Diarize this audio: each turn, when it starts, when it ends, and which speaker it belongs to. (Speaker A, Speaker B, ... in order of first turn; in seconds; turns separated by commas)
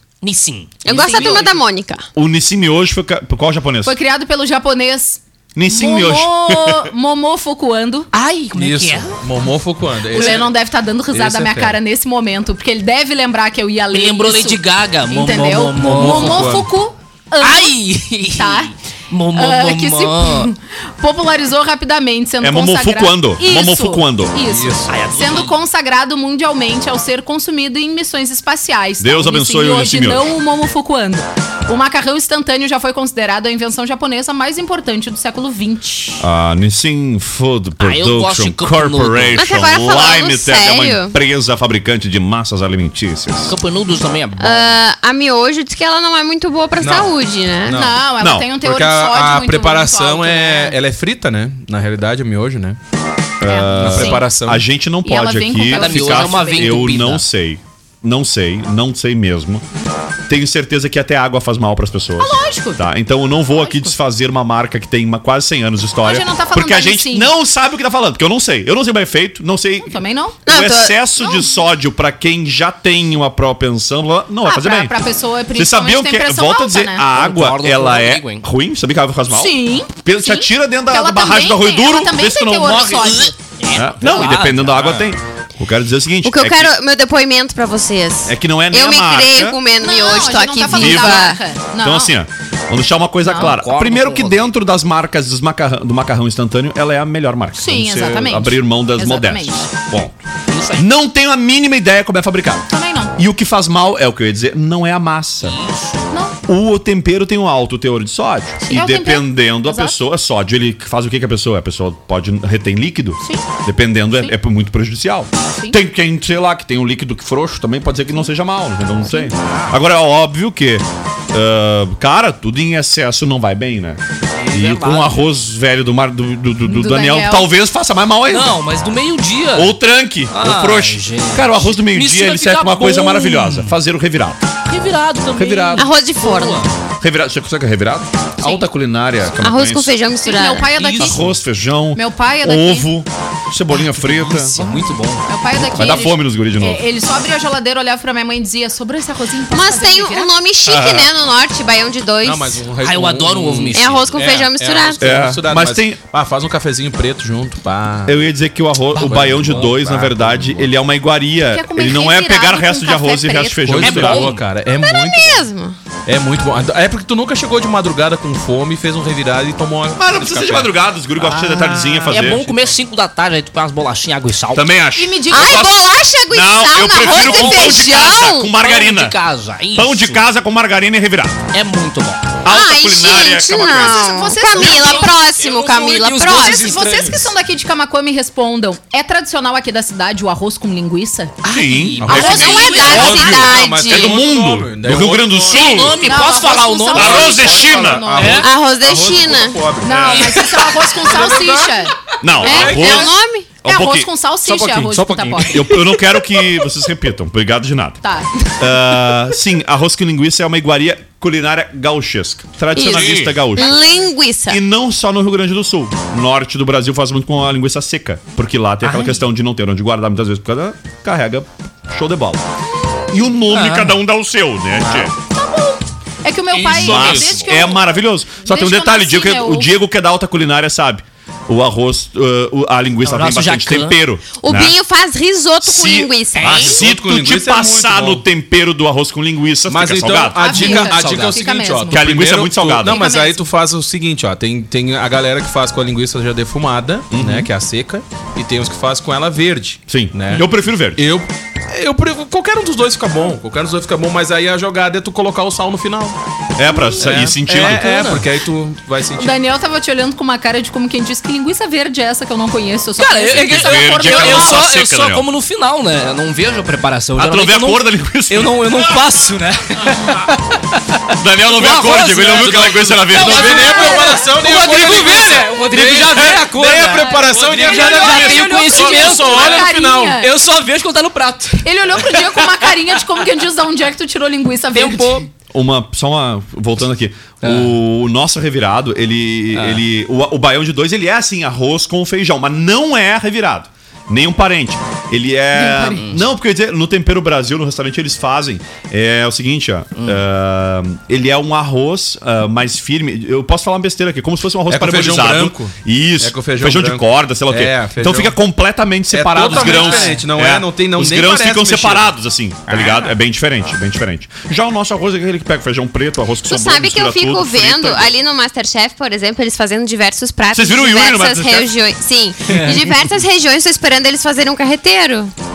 Speaker A: 0.2-1.4, Speaker B: 0.8-2.0, Speaker C: 0.9-1.6, Speaker D: 2.1-4.0, Speaker C: 3.9-8.1, Speaker D: 5.5-6.9, Speaker A: 8.1-9.2, Speaker E: 8.5-10.5, Speaker C: 10.1-17.8, Speaker A: 10.2-10.4, Speaker E: 11.1-11.8, Speaker A: 13.9-16.7, Speaker E: 15.8-16.7, Speaker A: 17.4-20.5, Speaker C: 18.3-18.7, Speaker C: 19.3-36.2, Speaker D: 22.4-24.4, Speaker E: 24.4-24.9, Speaker A: 24.9-25.6, Speaker D: 29.0-30.3, Speaker D: 36.2-43.5, Speaker A: 37.8-39.4, Speaker B: 39.4-41.2, Speaker A: 43.5-44.8, Speaker B: 44.4-47.9, Speaker E: 46.8-47.1, Speaker E: 47.7-48.0, Speaker C: 47.7-50.8, Speaker D: 48.2-48.5, Speaker E: 48.6-52.8, Speaker D: 53.4-59.6, Speaker C: 53.4-54.3, Speaker E: 53.8-54.6, Speaker C: 55.0-56.9, Speaker A: 55.7-57.2, Speaker D: 60.3-75.0, Speaker C: 62.2-62.9, Speaker C: 63.5-63.9, Speaker C: 66.0-67.3, Speaker C: 69.8-70.4, Speaker B: 70.5-71.0, Speaker C: 71.2-71.5, Speaker C: 74.4-77.0, Speaker D: 75.5-83.2, Speaker A: 77.2-78.5, Speaker C: 79.3-83.3, Speaker A: 83.0-85.0, Speaker D: 83.7-86.7, Speaker B: 86.2-91.4, Speaker D: 88.3-89.6, Speaker C: 89.8-92.1, Speaker D: 90.7-100.2, Speaker C: 93.2-93.5, Speaker A: 93.3-94.5, Speaker C: 97.5-99.7, Speaker A: 100.5-100.9, Speaker D: 100.8-105.6, Speaker C: 102.7-103.2, Speaker A: 105.4-106.0, Speaker C: 106.1-106.4, Speaker D: 106.5-128.6, Speaker C: 108.6-110.0, Speaker C: 113.2-113.5, Speaker A: 119.4-119.7, Speaker A: 124.4-125.2, Speaker C: 126.7-127.5, Speaker A: 128.3-129.8, Speaker D: 129.6-134.4, Speaker A: 130.3-133.8, Speaker A: 134.7-136.7, Speaker D: 135.3-135.9, Speaker B: 135.8-136.6, Speaker D: 137.0-140.0, Speaker B: 139.4-140.8, Speaker C: 140.2-141.3, Speaker A: 140.8-141.2, Speaker D: 141.0-144.8, Speaker C: 141.9-142.9, Speaker A: 144.0-145.2, Speaker C: 145.3-150.3, Speaker D: 145.6-146.8, Speaker B: 149.5-152.7, Speaker D: 150.7-151.1, Speaker E: 152.2-158.2, Speaker A: 152.8-154.4, Speaker B: 153.7-155.2, Speaker D: 155.0-156.0, Speaker D: 158.1-164.4, Speaker E: 158.9-160.7, Speaker C: 161.5-163.8, Speaker E: 163.7-165.4, Speaker A: 163.8-164.4, Speaker B: 164.7-165.8, Speaker E: 166.1-170.7, Speaker D: 170.0-172.4, Speaker A: 171.5-174.7, Speaker E: 172.3-172.6, Speaker D: 174.5-175.8, Speaker C: 175.0-175.7, Speaker B: 175.3-178.5, Speaker D: 176.3-179.2, Speaker A: 177.0-180.2, Speaker D: 179.7-181.4, Speaker A: 181.5-182.3, Speaker D: 182.4-184.3, Speaker B: 182.5-186.8, Speaker C: 183.7-185.1, Speaker A: 184.6-187.3, Speaker C: 186.2-191.3, Speaker D: 191.4-196.0, Speaker A: 191.4-193.2, Speaker E: 192.0-195.9, Speaker C: 192.1-192.9, Speaker B: 192.1-194.2, Speaker A: 195.5-198.5, Speaker C: 196.0-198.4, Speaker D: 196.9-198.3, Speaker E: 197.1-200.2, Speaker B: 198.4-199.7, Speaker C: 199.8-201.9, Speaker D: 199.9-200.2, Speaker A: 199.9-200.9, Speaker E: 201.0-201.7, Speaker A: 202.1-203.1, Speaker D: 202.2-204.1, Speaker B: 202.4-203.5, Speaker C: 203.6-205.7, Speaker A: 204.4-206.0, Speaker D: 205.5-213.8, Speaker C: 208.0-208.7, Speaker B: 212.7-214.6, Speaker A: 212.9-213.3, Speaker D: 214.5-222.4, Speaker A: 218.8-219.2, Speaker D: 223.1-225.1, Speaker A: 223.5-224.0, Speaker A: 224.8-225.1, Speaker C: 225.3-229.7, Speaker A: 226.5-227.5, Speaker D: 226.7-234.8, Speaker A: 233.0-234.0, Speaker B: 234.4-236.7, Speaker D: 235.6-241.3, Speaker A: 236.4-236.7, Speaker E: 236.4-238.2, Speaker E: 239.7-256.2, Speaker C: 240.4-242.1, Speaker A: 241.0-241.4, Speaker D: 241.9-243.0, Speaker C: 242.8-243.4, Speaker D: 247.1-247.5, Speaker D: 249.9-251.0, Speaker D: 256.6-258.2, Speaker C: 256.7-257.0, Speaker E: 257.0-259.4, Speaker C: 259.2-264.6, Speaker A: 263.0-282.4, Speaker D: 263.3-265.3, Speaker D: 267.2-268.7, Speaker D: 271.2-273.9, Speaker E: 272.3-280.2, Speaker C: 277.5-280.3, Speaker D: 278.0-278.3, Speaker C: 281.6-285.3, Speaker A: 284.7-285.3, Speaker D: 285.5-318.1, Speaker A: 287.4-287.7, Speaker A: 289.5-289.8, Speaker C: 295.5-296.1, Speaker E: 304.7-308.4, Speaker E: 309.1-312.1, Speaker A: 309.4-310.2, Speaker A: 312.7-313.1, Speaker B: 316.5-325.3, Speaker D: 320.5-321.7